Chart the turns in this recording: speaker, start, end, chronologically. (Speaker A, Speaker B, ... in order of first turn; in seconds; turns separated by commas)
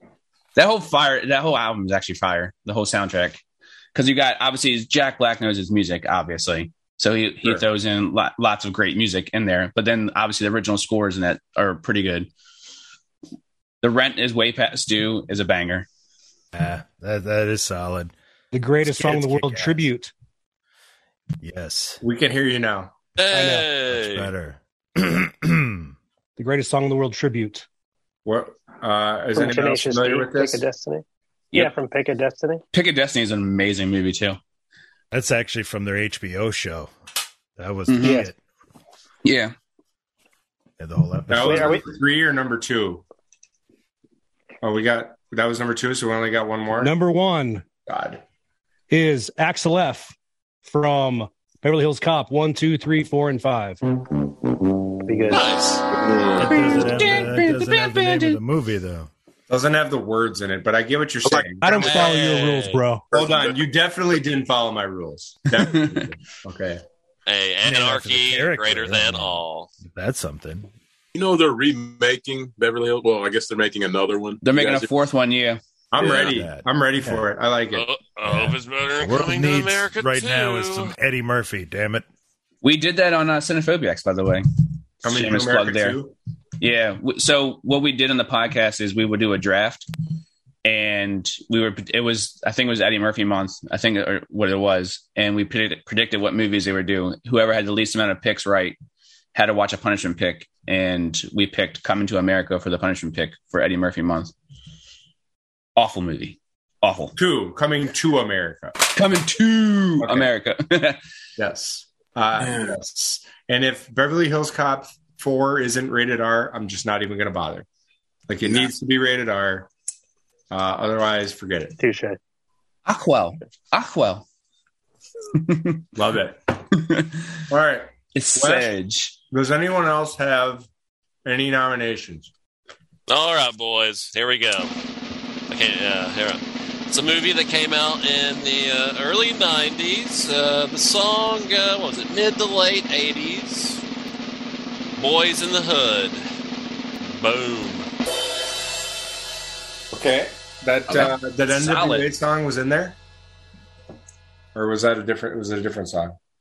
Speaker A: 0.6-3.4, Speaker A: 3.9-12.3, Speaker A: 13.8-15.9, Speaker B: 16.5-18.1, Speaker C: 18.5-20.1, Speaker B: 18.8-19.9, Speaker B: 21.4-22.0, Speaker D: 22.0-22.9, Speaker E: 23.2-24.3, Speaker C: 23.3-23.7, Speaker B: 23.9-25.9, Speaker C: 26.4-27.6, Speaker D: 28.2-30.6, Speaker F: 29.3-32.6, Speaker A: 32.7-34.4, Speaker B: 35.1-36.9, Speaker B: 37.6-38.4, Speaker A: 37.9-38.3, Speaker A: 39.2-39.5, Speaker B: 40.8-41.8, Speaker D: 41.3-43.0, Speaker F: 41.5-41.8, Speaker D: 44.6-46.9, Speaker C: 46.7-47.6, Speaker D: 47.9-48.2, Speaker C: 48.9-53.8, Speaker F: 55.1-55.5, Speaker E: 55.3-55.8, Speaker G: 55.9-57.1, Speaker B: 56.4-59.1, Speaker C: 56.8-58.3, Speaker D: 59.5-62.1, Speaker C: 61.6-63.0, Speaker E: 61.8-62.8, Speaker G: 63.1-63.6, Speaker D: 63.1-66.8, Speaker A: 65.6-66.0, Speaker E: 67.3-69.7, Speaker B: 67.6-70.7, Speaker G: 71.1-74.9, Speaker A: 74.4-75.6, Speaker D: 75.9-77.8, Speaker B: 76.0-77.2, Speaker E: 77.7-80.9, Speaker B: 78.2-82.0, Speaker A: 82.6-84.4, Speaker D: 85.0-86.1, Speaker A: 85.0-86.0, Speaker A: 86.6-89.9, Speaker A: 90.6-98.8, Speaker A: 99.3-104.3, Speaker A: 105.8-107.1, Speaker D: 107.2-108.9, Speaker A: 108.9-111.0, Speaker D: 110.0-110.3, Speaker D: 111.4-117.7, Speaker G: 112.4-112.8, Speaker D: 118.3-119.7, Speaker D: 120.5-121.8, Speaker F: 121.8-122.2, Speaker A: 122.8-124.2, Speaker A: 125.4-125.8, Speaker D: 125.9-126.4, Speaker A: 126.7-127.2, Speaker D: 127.5-128.7, Speaker A: 128.1-129.1, Speaker D: 129.3-130.7, Speaker D: 131.2-132.3, Speaker E: 133.1-134.7, Speaker E: 135.5-143.8, Speaker E: 145.0-146.2, Speaker E: 147.0-147.9, Speaker D: 149.9-153.0, Speaker G: 150.9-151.1, Speaker A: 150.9-152.1, Speaker D: 154.5-156.2